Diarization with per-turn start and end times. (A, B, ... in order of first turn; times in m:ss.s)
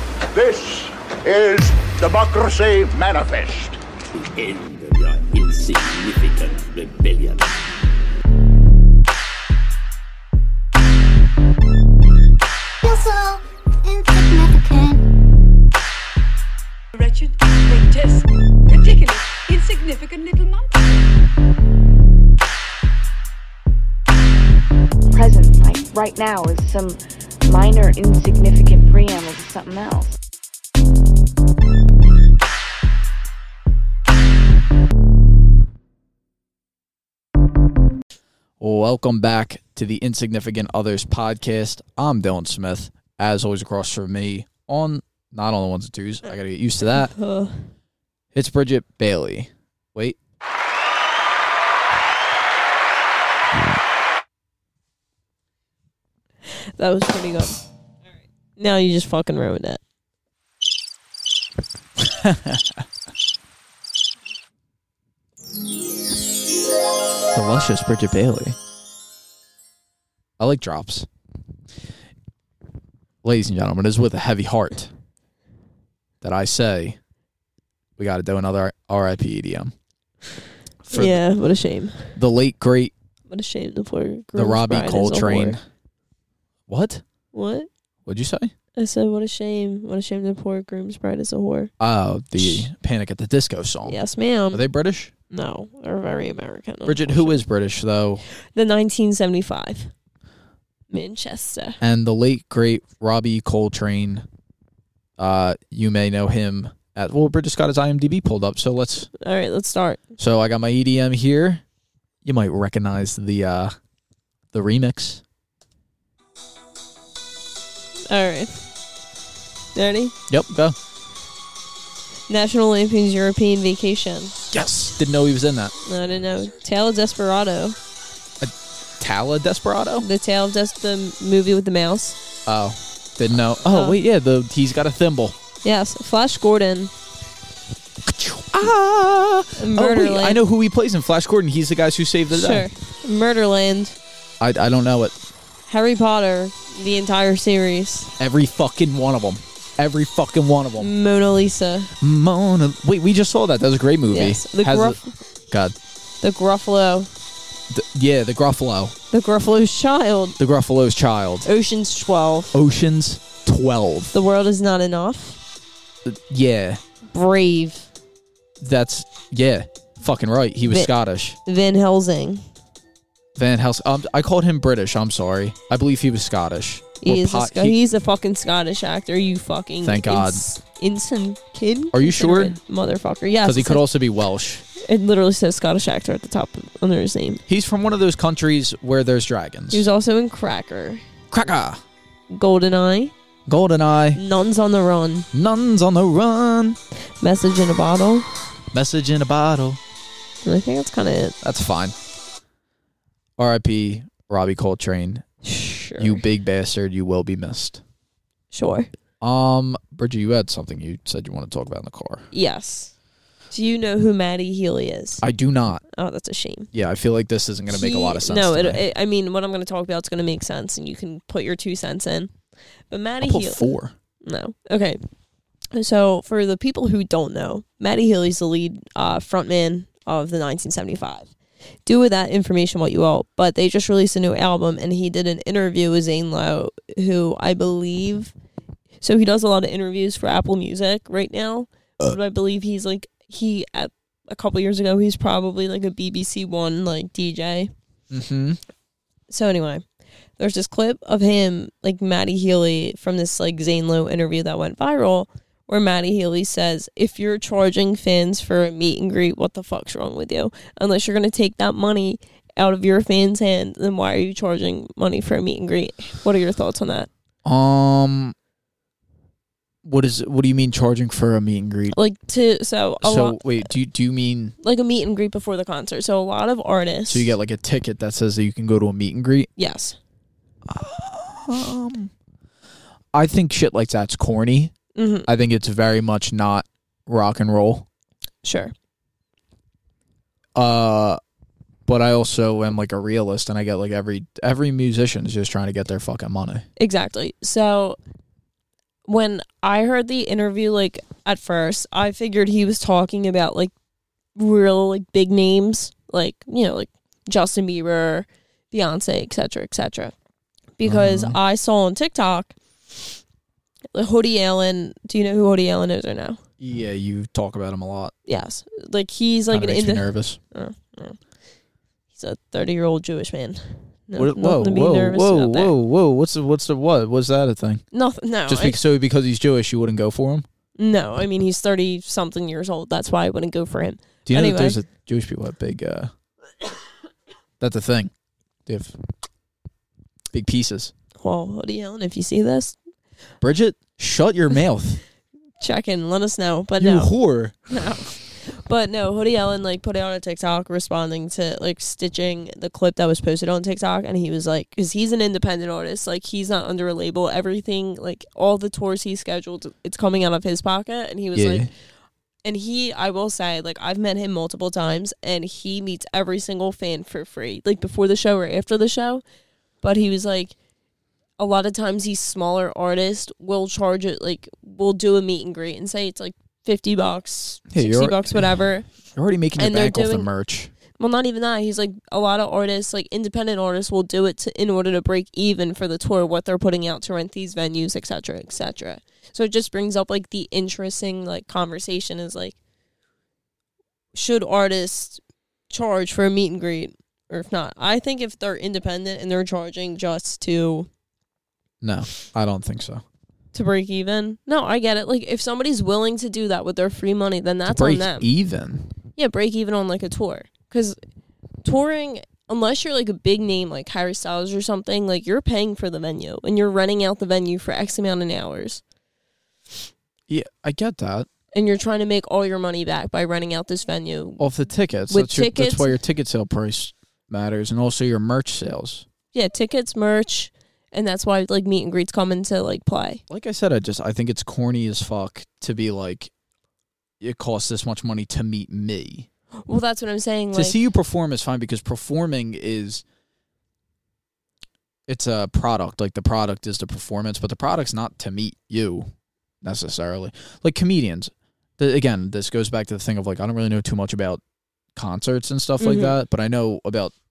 0:00.3-0:03.8 A
0:04.0-0:07.6 B
0:12.8-0:15.0 C
0:17.0-0:20.6 D
0:25.1-0:30.2 E
0:38.6-0:47.1 F
0:46.9-0:47.6 G
0:48.3-0:50.2 F
0:56.5-0:57.6 G
0:58.6-0:59.8 G
1:02.0-1:02.8 F
1:07.3-1:08.6 F
1:10.4-1:11.1 F
1:13.2-1:14.9 F
1:16.2-1:17.0 F
1:18.0-1:19.7 F
1:20.8-1:21.2 F
1:20.9-1:22.1 G
1:22.2-1:22.9 F
1:23.3-1:25.6 G
1:24.3-1:25.6 F
1:26.7-1:27.0 F
1:27.3-1:27.7 G
1:28.0-1:28.5 F
1:28.8-1:31.7 G
1:31.8-1:34.0 F
1:32.4-1:32.7 G
1:33.8-1:34.6 G
1:34.5-1:35.1 F
1:35.3-1:37.4 G
1:36.8-1:38.2 F
1:38.5-1:39.9 G
1:40.9-1:41.8 G
1:41.8-1:44.2 F
1:45.2-1:49.1 F
1:49.2-1:50.0 G
1:50.2-1:51.6 F
1:52.2-1:53.7 F
1:54.5-1:55.2 F
1:58.1-1:58.7 G
1:59.7-2:00.1 G
2:00.3-2:00.8 F
2:02.3-2:04.4 G
2:04.5-2:05.7 F
2:05.8-2:07.8 G
2:08.4-2:10.1 F
2:10.0-2:12.2 G
2:12.4-2:15.4 F
2:13.6-2:14.0 G
2:15.6-2:16.9 G
2:18.0-2:22.7 F
2:19.6-2:20.4 G
2:22.3-2:24.0 G
2:24.4-2:25.2 F
2:25.7-2:28.1 G
2:28.2-2:30.9 F
2:30.8-2:31.9 G
2:32.0-2:35.0 F
2:34.1-2:35.1 G
2:35.5-2:35.8 F
2:36.2-2:37.1 G
2:37.7-2:38.9 F
2:39.1-2:40.4 G
2:40.4-2:41.5 F
2:41.4-2:42.6 G
2:42.5-2:44.1 F
2:44.1-2:45.4 G
2:46.0-2:46.8 F
2:47.1-2:47.9 G
2:48.6-2:51.4 F
2:51.4-2:52.4 G
2:53.4-2:57.8 F
2:57.0-3:03.8 G
2:59.8-3:00.4 F
3:01.9-3:02.6 F
3:03.4-3:04.6 F
3:04.8-3:07.4 G
3:07.5-3:09.8 F
3:09.7-3:11.0 G
3:11.3-3:11.8 F
3:12.3-3:13.1 G
3:13.5-3:14.2 F
3:14.1-3:15.2 G
3:15.3-3:16.8 F
3:17.2-3:18.3 G
3:18.7-3:19.8 F
3:20.4-3:21.3 G
3:21.4-3:21.9 F
3:23.4-3:25.2 F
3:25.4-3:26.2 G
3:26.0-3:27.8 F
3:28.5-3:28.9 G
3:29.2-3:32.2 F
3:32.3-3:32.9 G
3:33.5-3:35.2 G
3:35.2-3:35.8 F
3:35.9-3:36.7 G
3:36.7-3:38.8 F
3:37.7-3:42.3 G
3:42.9-3:43.6 G
3:43.2-3:43.9 F
3:44.2-3:45.0 G
3:45.7-3:51.3 G
3:51.8-3:58.3 G
3:59.0-4:07.7 G
4:08.1-4:08.6 F
4:09.3-4:09.8 G
4:10.4-4:27.1 G
4:27.4-4:28.3 F
4:29.8-4:31.9 F
4:31.9-4:33.4 G
4:33.0-4:34.5 F
4:34.6-4:37.3 G
4:37.1-4:39.5 F
4:39.6-4:40.0 G
4:40.6-4:42.1 F
4:43.1-4:44.7 F
4:45.0-4:45.3 G
4:45.3-4:47.9 F
4:48.4-4:48.7 G
4:50.6-4:51.2 F
4:51.9-4:56.6 F
4:56.8-4:58.0 G
4:59.1-5:03.7 G
5:04.4-5:10.1 G
5:10.8-5:12.5 G
5:10.8-5:11.4 F
5:13.9-5:16.4 G
5:16.6-5:18.1 F
5:18.3-5:21.2 G
5:19.5-5:20.4 F
5:22.1-5:25.7 G
5:24.1-5:27.8 F
5:27.9-5:28.8 G
5:28.5-5:30.4 F
5:30.8-5:34.8 G
5:34.2-5:36.1 F
5:37.6-5:38.1 F
5:38.6-5:39.0 F
5:40.3-5:40.9 F
5:41.2-5:42.8 G
5:43.4-5:45.0 F
5:45.6-5:47.1 G
5:46.8-5:47.7 F
5:47.7-6:01.7 G
6:01.3-6:01.7 F
6:02.4-6:09.2 G
6:09.8-6:10.5 G
6:11.4-6:18.9 G
6:17.7-6:18.4 F
6:19.0-6:20.7 F
6:19.6-6:20.3 G
6:21.0-6:32.6 G
6:34.1-6:40.9 G
6:41.8-6:43.0 F
6:43.5-6:48.3 G
6:47.6-6:48.9 F
6:49.2-6:51.0 G
6:51.6-6:58.8 G
7:00.3-7:01.3 F
7:01.5-7:04.5 G
7:04.4-7:09.0 F
7:05.1-7:06.0 G
7:09.3-7:13.2 G
7:13.3-7:16.3 F
7:17.2-7:19.3 F
7:19.6-7:20.8 G
7:20.5-7:23.0 F
7:25.1-7:29.1 F
7:29.6-7:34.4 F
7:34.9-7:37.1 F
7:35.8-7:36.1 G